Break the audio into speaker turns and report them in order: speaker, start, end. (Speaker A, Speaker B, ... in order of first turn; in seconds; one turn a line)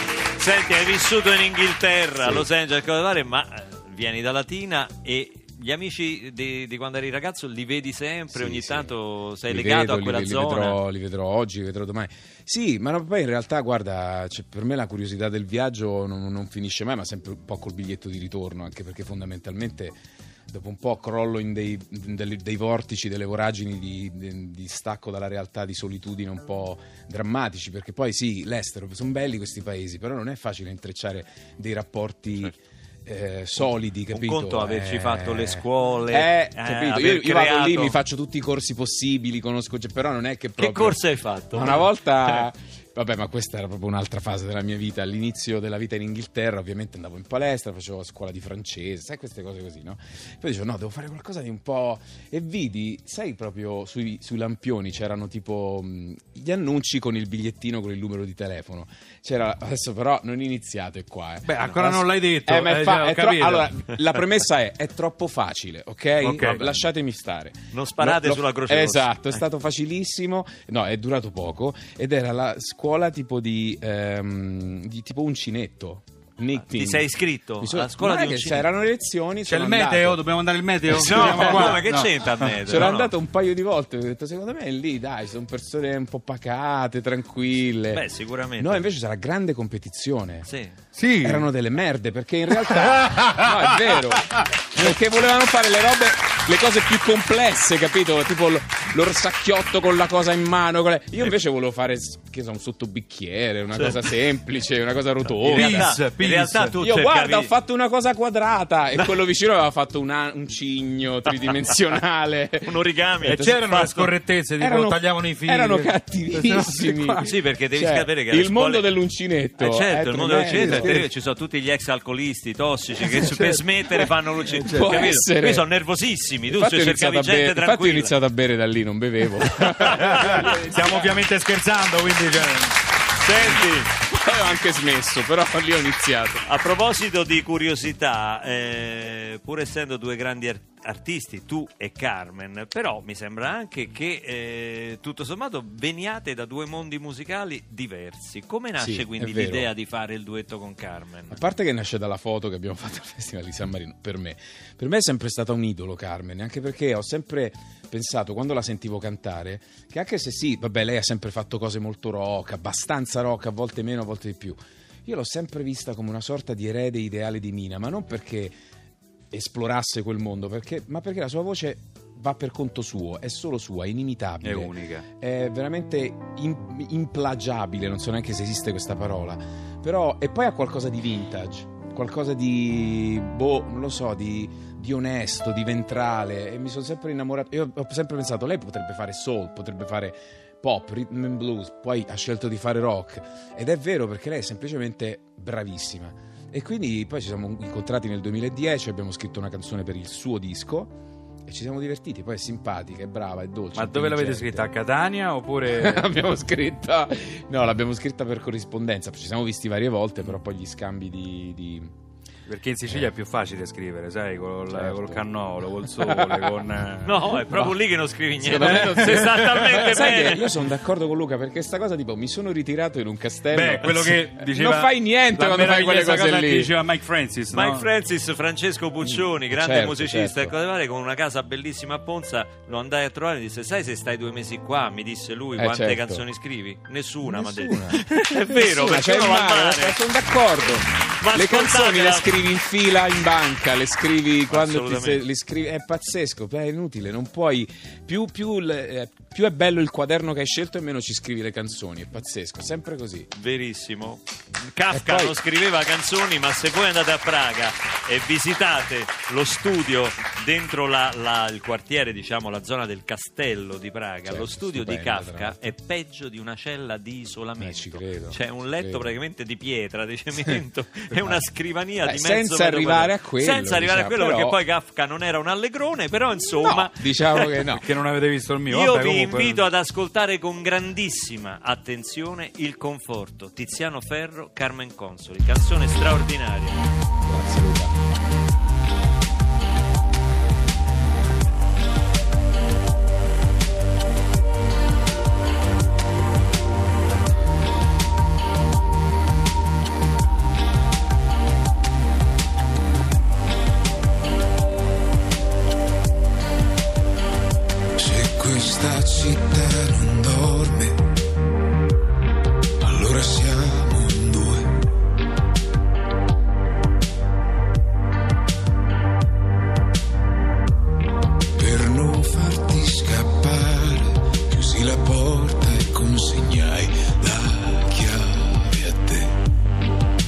Speaker A: 0.4-10.8
Speaker B: 2.2-2.5
Speaker B: 8.3-8.9
Speaker B: 9.5-20.0
Speaker B: 20.5-32.5
Speaker B: 33.0-80.2
Speaker A: 34.1-38.0
Speaker A: 40.6-41.9
Speaker C: 61.5-63.8
Speaker C: 66.2-66.7
Speaker A: 67.7-69.5
Speaker A: 76.6-78.7
Speaker C: 79.5-82.9
Speaker A: 80.9-83.1
Speaker B: 81.1-81.8
Speaker B: 82.7-88.0
Speaker A: 87.9-88.9
Speaker B: 88.6-90.5
Speaker A: 90.5-90.8
Speaker C: 91.0-91.5
Speaker B: 91.2-106.0
Speaker C: 93.0-93.4
Speaker A: 105.3-107.5
Speaker C: 105.5-106.8
Speaker B: 106.8-112.8
Speaker A: 112.6-114.1
Speaker C: 113.2-117.3
Speaker B: 114.6-121.1
Speaker A: 117.2-118.9
Speaker A: 119.6-128.1
Speaker C: 120.5-121.0
Speaker B: 123.1-125.7
Speaker C: 124.7-125.0
Speaker B: 126.5-131.2
Speaker C: 129.8-132.8
Speaker A: 129.8-130.5
Speaker A: 133.2-133.9
Speaker B: 134.0-136.4
Speaker A: 136.5-151.4
Speaker B: 148.8-149.7
Speaker B: 151.3-168.6
Speaker B: 169.3-204.7
Speaker C: 174.4-175.1
Speaker C: 203.7-206.1
Speaker B: 205.7-211.9
Speaker C: 212.5-217.4
Speaker B: 214.7-215.2
Speaker B: 216.0-216.5
Speaker A: 217.1-220.5
Speaker B: 218.4-226.7
Speaker C: 218.6-219.8
Speaker C: 223.5-227.8
Speaker A: 227.5-240.0
Speaker B: 229.0-230.5
Speaker B: 235.6-236.2
Speaker B: 237.2-253.3
Speaker A: 241.2-242.3
Speaker A: 244.5-245.2
Speaker A: 253.3-277.4
Speaker B: 254.9-255.4
Speaker B: 264.3-265.6
Speaker B: 267.6-269.1
Speaker B: 271.2-271.4
Speaker B: 272.0-274.6
Speaker B: 276.6-277.9
Speaker C: 277.7-279.6
Speaker A: 278.7-286.8
Speaker B: 287.2-287.9
Speaker B: 308.0-311.0
Speaker B: 312.8-314.8
Speaker B: 321.6-329.4